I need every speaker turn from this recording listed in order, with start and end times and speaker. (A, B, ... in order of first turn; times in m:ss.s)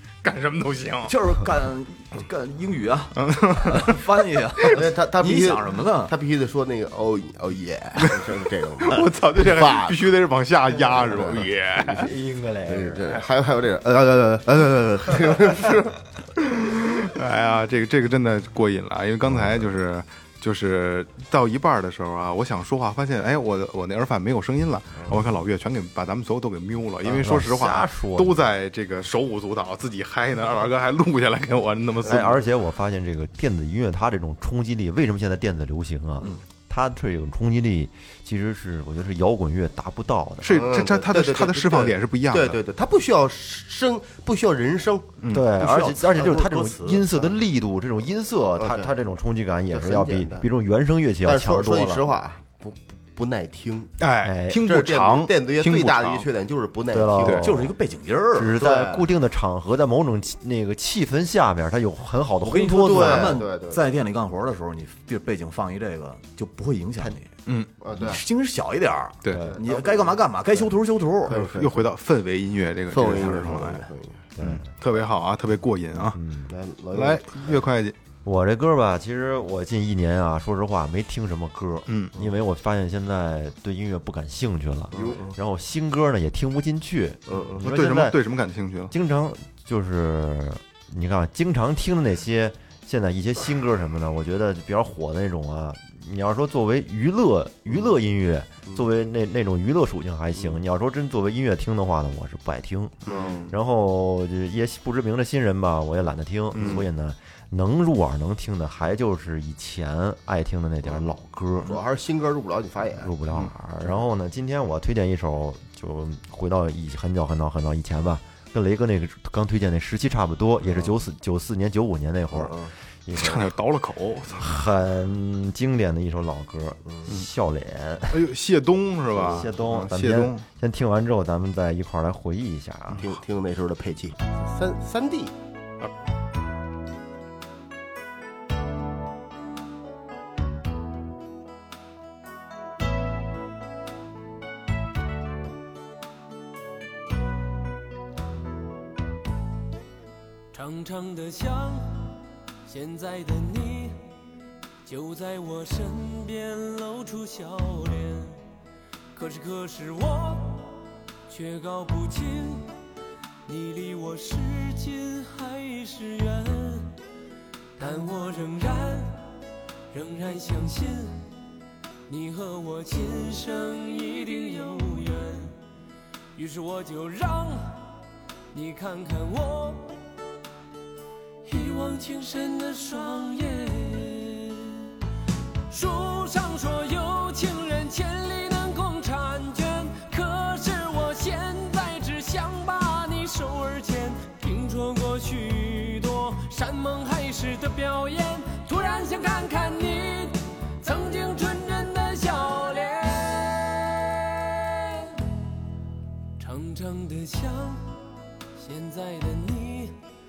0:00.2-0:01.2 A
0:01.0-0:06.1 B
0:03.2-0:04.0 A
0:04.7-0:10.0 C
0:08.8-0:12.1 A
0:11.0-0:11.4 C
0:11.9-0:13.2 D
0:12.7-0:16.0 C
0:16.5-0:32.4 A
0:27.1-0:28.4 D
0:32.0-0:40.6 D
0:40.4-0:42.6 A
0:40.5-0:45.1 C
0:45.2-0:45.5 A
0:45.3-0:52.0 D
0:45.6-0:47.1 B
0:48.6-0:48.9 C
0:49.7-0:50.5 C
0:51.2-0:53.9 C
0:54.0-0:56.3 A
0:54.2-0:54.6 D
0:54.6-0:57.5 C
0:56.9-0:57.6 D
0:57.2-0:57.5 A
0:57.4-0:58.6 B
0:58.3-1:03.4 D
0:58.5-0:59.1 C
1:02.4-1:07.3 B
1:02.8-1:03.8 C
1:07.8-1:08.2 C
1:07.9-1:11.4 B
1:09.3-1:09.6 D
1:09.4-1:10.7 C
1:11.3-1:11.9 C
1:11.3-1:13.9 A
1:12.9-1:14.2 C
1:14.4-1:14.6 D
1:14.4-1:16.2 A
1:16.1-1:16.5 D
1:16.5-1:17.6 C
1:16.9-1:18.0 A
1:18.2-1:28.2 D
1:21.9-1:22.1 A
1:24.9-1:25.4 C
1:27.3-1:27.6 C
1:27.6-1:28.9 A
1:28.9-1:51.8 D
1:43.0-1:43.5 A
1:43.1-1:43.5 C
1:46.5-1:46.8 A
1:46.6-1:46.8 C
1:50.8-1:53.1 C
1:53.0-2:03.5 D
2:02.3-2:02.7 C
2:03.1-2:04.6 A
2:04.4-2:08.2 D
2:08.1-2:10.4 A
2:09.2-2:13.0 D
2:13.0-2:15.3 C
2:30.5-2:31.8 E
2:32.6-2:34.0 E
2:34.8-2:38.4 E
2:39.1-2:40.8 E
2:41.3-2:42.7 E
2:43.4-2:46.9 E
2:47.8-2:49.1 E
2:49.9-2:51.1 E
2:52.1-2:55.6 E
2:56.3-2:57.8 E
2:58.5-3:00.0 E
3:01.4-3:04.8 E
3:05.7-3:25.1 E
3:26.4-3:27.8 E
3:28.6-3:29.9 E